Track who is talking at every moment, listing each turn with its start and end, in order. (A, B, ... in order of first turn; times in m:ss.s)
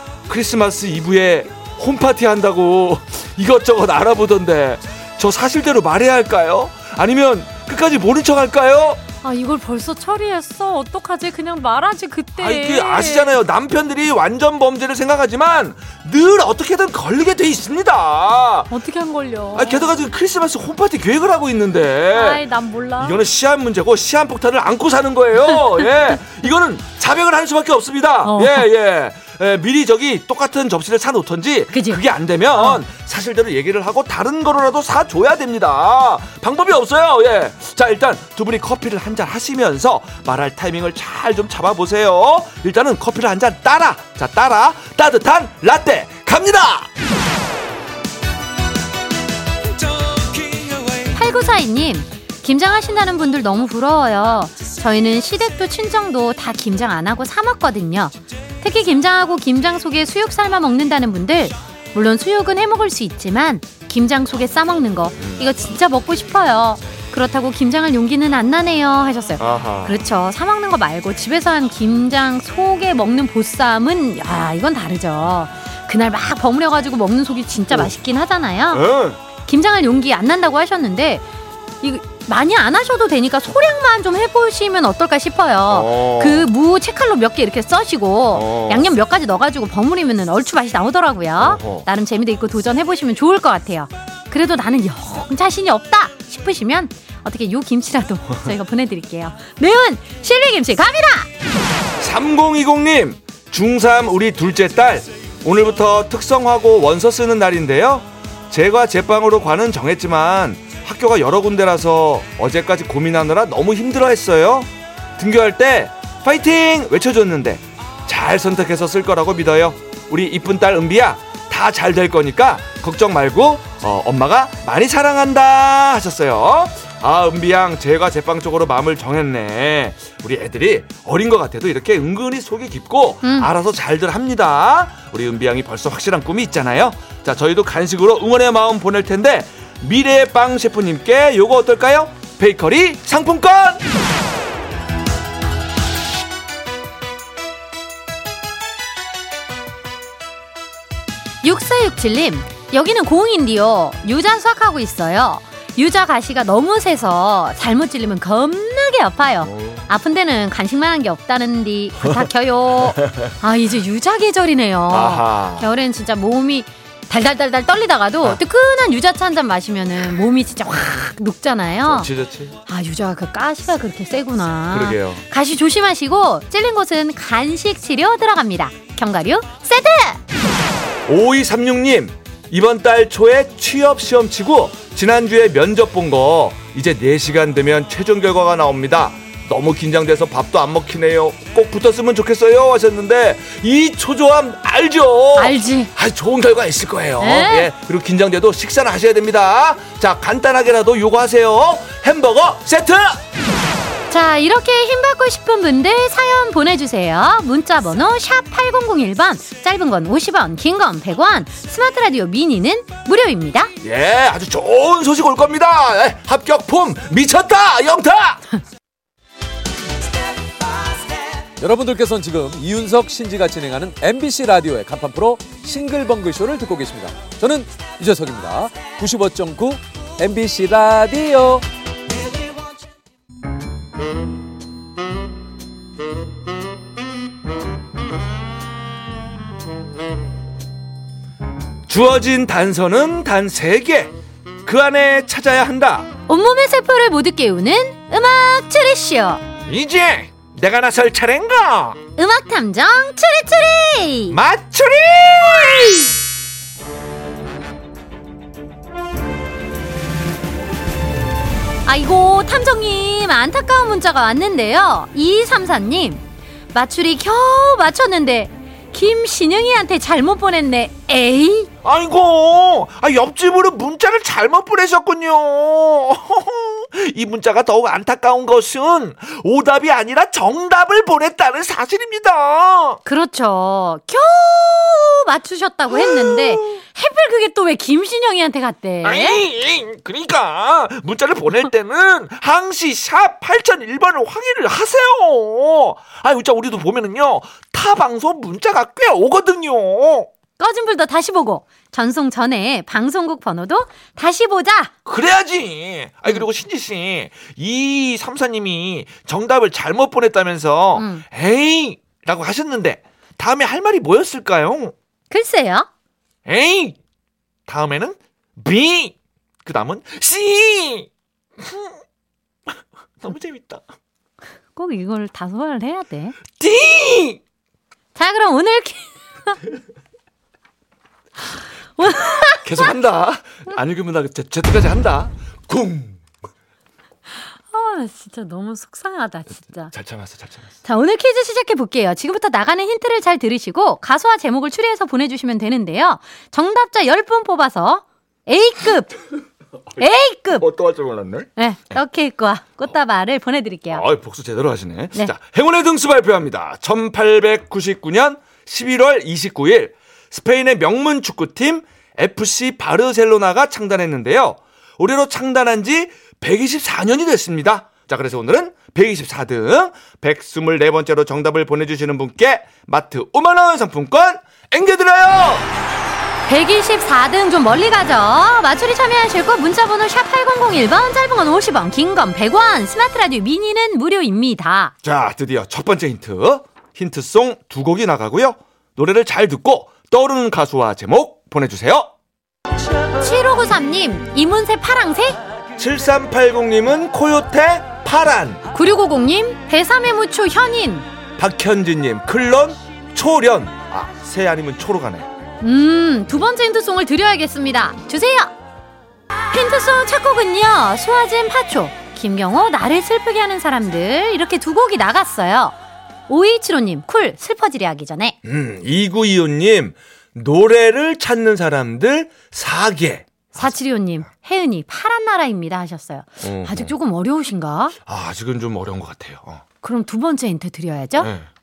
0:00.3-0:09.0 A
0:09.2-0:13.4 B
0:12.4-0:18.7 A
0:18.7-0:19.9 B
0:19.5-0:22.4 A
0:22.1-0:23.2 B
0:23.0-0:46.9 A
0:28.2-0:28.6 B
0:31.7-0:32.0 B
0:32.6-0:32.8 B
0:51.1-1:18.8 B
1:05.2-1:05.5 A
1:09.4-1:10.0 A
1:18.7-1:19.2 A
1:19.4-1:21.2 B
1:21.8-1:41.3 B
1:25.7-1:26.5 A
1:28.3-1:28.9 A
1:31.4-1:31.8 A
1:42.0-2:23.8 A
2:13.2-2:13.5 B
2:31.4-2:52.1 B
2:39.4-2:39.8 A
2:44.9-2:45.7 A
2:51.8-2:52.5 A
2:52.7-3:00.2 B
2:54.7-2:55.2 A
3:01.1-3:23.2 A
3:15.4-3:15.9 B
3:17.2-3:17.7 B
3:24.1-3:33.7 B
3:33.8-3:38.4 A
3:41.6-3:51.6 C
4:01.9-4:04.1 A
4:04.6-4:06.1 A
4:06.3-4:09.4 B
4:09.7-4:12.0 A
4:12.2-4:14.4 B
4:14.3-4:16.1 A
4:21.8-4:31.7 B
4:31.8-4:43.0 A
4:43.0-4:49.4 B
4:46.0-4:46.6 A
4:49.0-5:00.3 A
5:00.6-5:04.9 B
5:05.0-5:14.9 A
5:11.0-5:11.2 B
5:15.3-5:15.9 B
5:16.4-5:17.0 A
5:17.7-5:21.1 A
5:21.6-5:21.9 A
5:23.2-5:23.8 A
5:24.7-5:26.4 B
5:26.6-5:27.4 A
5:28.1-5:29.6 B
5:32.0-5:32.9 B
5:32.6-5:36.2 A
5:37.7-5:39.9 B
5:39.9-5:40.7 A
5:40.8-5:49.2 B
5:50.0-5:50.7 B
5:50.5-5:51.5 A
5:51.6-5:54.0 B
5:53.9-6:15.7 A
6:16.5-6:24.9 B
6:25.0-6:32.1 A
6:33.2-6:35.4 B
6:35.8-6:38.6 A
6:38.7-6:41.0 B
6:41.4-6:45.3 A
6:45.6-6:48.5 B
6:49.5-6:55.7 B
6:56.3-6:58.4 B
6:58.4-7:03.7 A
7:03.6-7:07.9 B
7:06.4-7:06.9 A
7:08.0-7:09.6 A
7:09.8-7:11.3 B
7:11.2-7:11.5 A